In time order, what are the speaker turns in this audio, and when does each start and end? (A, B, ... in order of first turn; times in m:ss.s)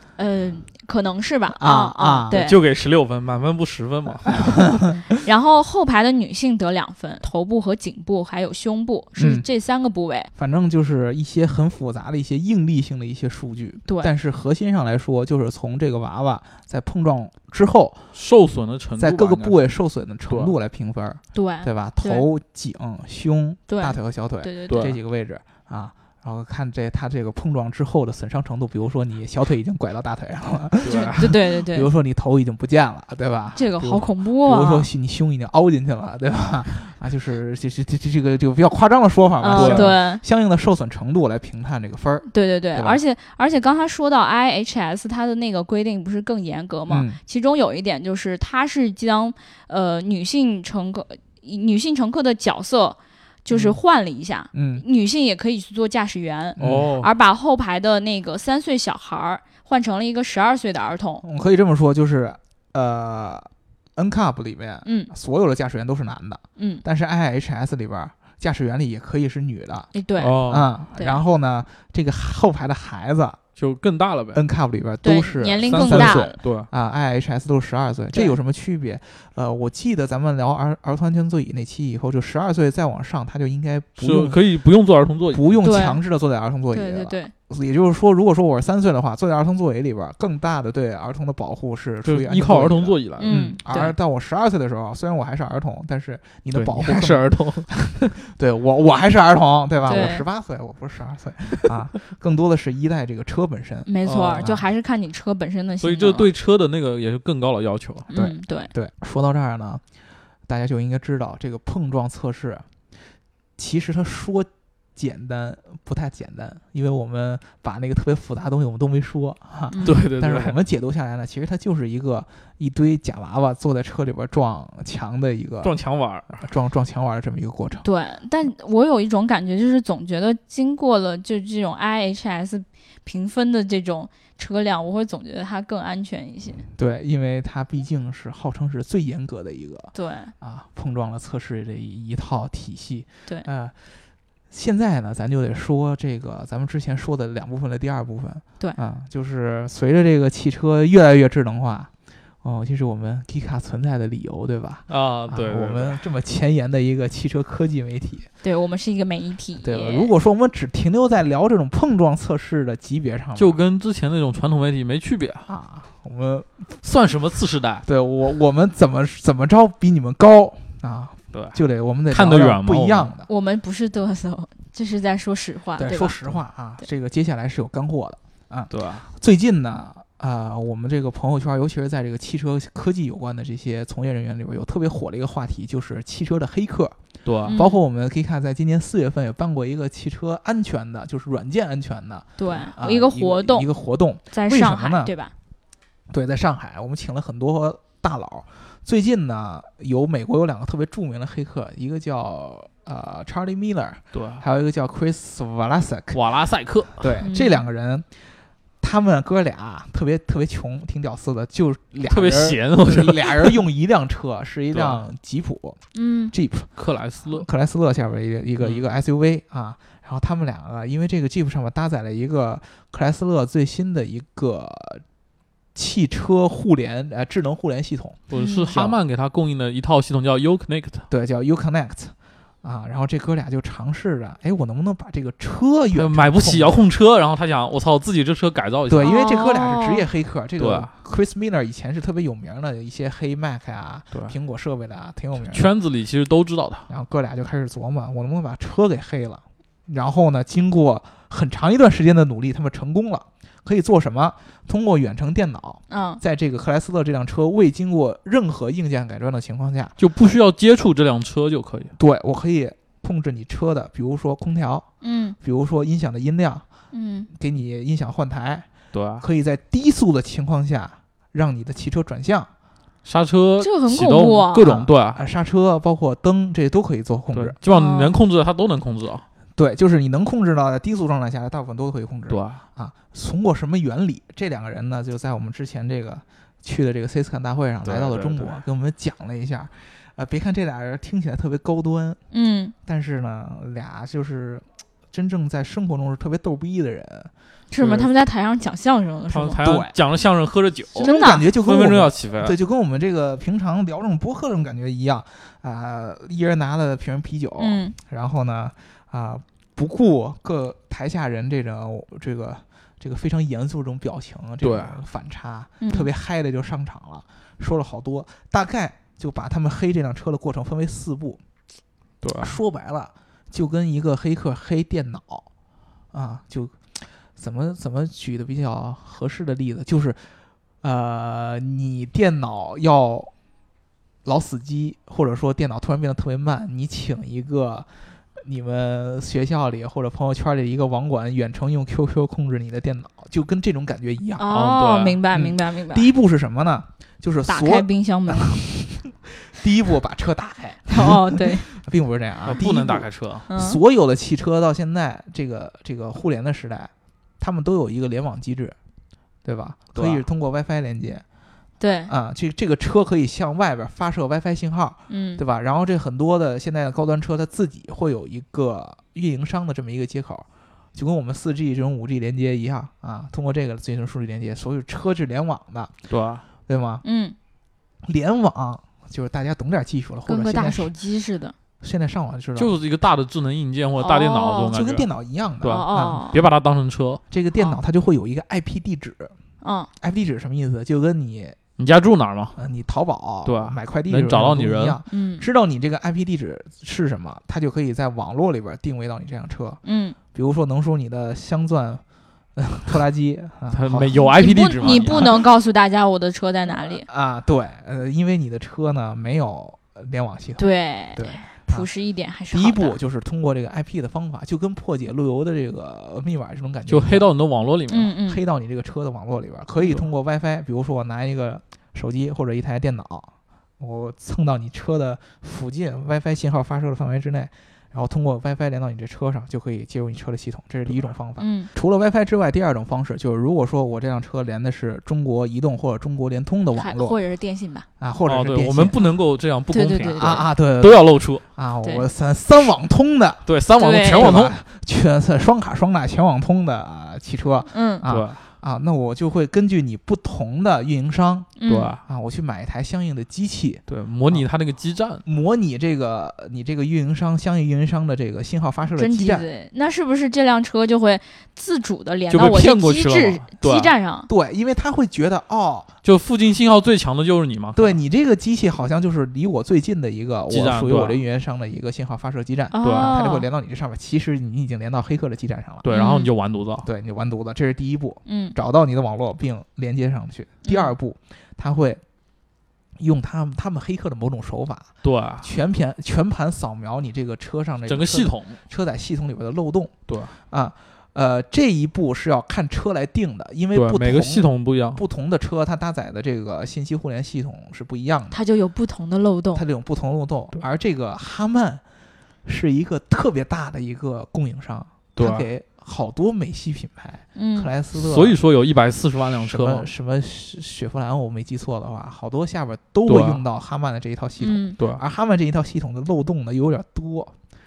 0:00.2-0:02.6 A
0:01.6-0:02.4 B
0:02.3-0:04.6 C
0:04.5-0:04.9 B
0:05.2-0:10.3 A
0:09.2-0:09.5 B
0:10.4-0:18.0 B
0:13.9-0:14.1 A
0:18.1-0:19.6 C
0:19.0-0:43.0 B
0:20.3-0:20.5 C
0:21.3-0:22.3 A
0:23.7-0:24.9 A
0:24.7-0:25.0 C
0:30.8-0:31.4 C
0:30.8-0:31.9 A
0:33.6-0:34.9 A
0:39.4-0:40.2 A
0:39.6-0:40.0 C
0:42.3-1:01.2 A
0:46.9-0:47.2 B
0:53.5-0:53.8 B
0:54.5-0:54.8 B
0:56.6-0:57.0 B
0:56.6-0:57.1 C
1:01.2-1:09.9 B
1:04.8-1:05.1 A
1:06.6-1:06.8 A
1:09.9-1:10.4 A
1:10.2-1:10.7 C
1:10.4-1:13.4 B
1:10.9-1:11.2 A
1:13.6-1:14.4 C
1:14.3-1:24.4 B
1:15.0-1:16.4 A
1:15.7-1:16.7 C
1:24.0-1:25.6 C
1:25.3-1:44.6 B
1:25.6-1:26.0 A
1:26.7-1:27.3 A
1:32.0-1:33.3 C
1:33.2-1:33.9 A
1:36.5-1:37.7 C
1:39.9-1:40.2 A
1:43.9-1:46.3 A
1:44.0-1:44.5 C
1:45.8-1:48.1 C
1:48.1-1:49.8 B
1:48.1-1:48.7 A
1:50.5-1:52.7 B
1:53.6-2:05.8 B
1:59.7-2:00.0 A
1:59.8-2:00.6 C
2:05.6-2:06.4 C
2:06.4-2:07.9 B
2:07.8-2:16.6 A
2:16.8-2:24.0 B
2:20.0-2:20.3 A
2:24.5-2:31.9 B
2:32.4-2:38.3 B
2:34.9-2:36.0 C
2:38.4-2:40.1 A
2:39.6-2:43.6 B
2:43.4-2:45.5 C
2:45.5-2:46.7 B
2:46.8-2:47.8 C
2:47.9-2:53.3 B
2:51.3-2:51.6 C
2:52.1-2:53.1 C
2:53.3-2:56.2 A
2:55.8-3:07.0 B
2:58.7-2:59.1 C
3:07.2-3:07.6 C
3:07.5-3:07.8 A
3:07.5-3:15.1 B
3:12.4-3:13.7 A
3:14.3-3:15.3 A
3:16.1-3:26.2 B
3:24.1-3:24.4 C
3:26.1-3:27.2 C
3:27.0-3:28.1 B
3:27.2-3:27.6 A
3:28.8-3:35.8 B
3:32.1-3:33.6 C
3:34.7-3:35.0 C
3:35.9-3:36.3 A
3:36.3-3:36.7 B
3:36.8-3:37.5 C
3:37.3-3:45.0 B
3:45.8-3:49.0 B
3:48.3-3:51.1 C
3:48.3-3:48.7 A
3:51.1-3:56.8 B
3:56.0-3:59.1 C
3:58.9-4:05.7 B
3:59.0-4:00.1 A
4:00.6-4:00.9 C
4:05.5-4:06.9 C
4:06.9-4:20.0 B
4:15.9-4:16.2 A
4:20.0-4:21.9 C
4:22.0-4:24.9 B
4:25.0-4:25.4 A
4:25.4-4:26.7 B
4:26.9-4:27.3 A
4:27.3-4:28.7 B
4:28.9-4:29.2 C
4:29.2-4:32.5 B
4:33.0-4:35.2 C
4:33.6-4:34.7 A
4:34.6-4:37.6 B
4:37.3-4:39.2 C
4:37.7-4:38.2 A
4:39.6-4:52.2 B
4:42.3-4:42.6 C
4:47.8-4:48.6 C
4:52.3-4:52.7 A
4:52.8-4:57.3 B
4:57.7-4:59.6 A
4:57.8-4:58.1 C
4:59.3-5:02.6 C
4:59.6-5:00.0 B
5:01.0-5:21.4 B
5:01.0-5:01.4 A
5:07.6-5:08.0 A
5:14.6-5:15.0 C
5:15.8-5:16.1 A
5:22.2-5:22.6 C
5:22.4-5:25.5 B
5:26.1-5:33.3 B
5:34.2-5:44.5 B
5:44.4-5:46.1 A
5:44.5-5:45.2 C
5:45.3-5:58.8 B
5:47.5-5:48.6 A
5:50.9-5:51.7 A
5:52.4-5:53.5 C
5:53.5-5:53.8 A
5:59.4-6:01.2 B
5:59.9-6:00.2 C
6:01.8-6:02.1 A
6:02.1-6:15.9 B
6:05.1-6:05.4 A
6:16.1-6:16.4 C
6:16.7-6:17.0 B
6:17.0-6:17.4 A
6:18.0-6:20.9 B
6:20.3-6:21.6 A
6:21.8-6:22.7 B
6:22.6-6:25.1 C
6:24.0-6:24.8 A
6:24.7-6:26.2 B
6:25.6-6:27.2 C
6:25.6-6:26.4 A
6:27.3-6:29.4 B
6:29.6-6:29.9 A
6:30.0-6:31.6 B
6:31.8-6:32.6 C
6:32.6-6:39.8 B
6:33.4-6:35.0 C
6:35.1-6:35.5 A
6:39.8-6:40.2 A
6:40.3-6:42.0 B
6:42.6-6:45.4 B
6:43.7-6:45.4 C
6:44.2-6:47.1 A
6:46.7-6:51.9 B
6:50.6-6:53.0 A
6:52.5-6:57.3 B
6:56.9-6:58.1 C
6:57.9-6:58.4 A
6:58.3-7:17.2 B
7:11.4-7:11.7 A
7:16.7-7:17.9 A
7:18.0-7:19.0 B
7:18.3-7:21.4 C
7:19.7-7:20.5 A
7:20.2-7:31.5 B
7:21.8-7:22.1 A
7:23.5-7:24.6 C
7:23.8-7:24.4 A
7:27.7-7:28.0 A
7:28.1-7:28.4 C
7:31.6-7:32.0 A
7:31.7-7:32.0 C
7:32.0-7:34.5 B
7:33.9-7:35.2 C
7:35.2-7:39.5 B
7:39.0-7:44.3 A
7:42.3-7:43.9 C
7:44.3-7:45.9 B
7:46.0-7:48.0 C
7:47.8-7:55.9 B
7:50.5-7:51.2 C
7:52.7-7:53.5 A
7:52.8-7:53.1 C
7:55.8-7:56.9 C
7:55.9-7:56.3 A
7:56.8-8:02.0 B
7:58.3-7:58.6 A
8:00.6-8:00.9 A
8:03.0-8:04.9 B
8:05.0-8:05.5 C
8:05.4-8:09.9 B
8:07.9-8:08.6 C
8:10.1-8:10.4 C
8:10.5-8:18.4 B
8:13.7-8:15.0 C
8:18.3-8:19.6 A
8:19.5-8:21.8 B
8:22.4-8:28.4 B
8:25.2-8:25.5 C
8:27.4-8:27.7 A
8:27.9-8:29.9 C
8:29.4-8:37.3 B
8:33.1-8:33.4 C
8:34.4-8:34.8 A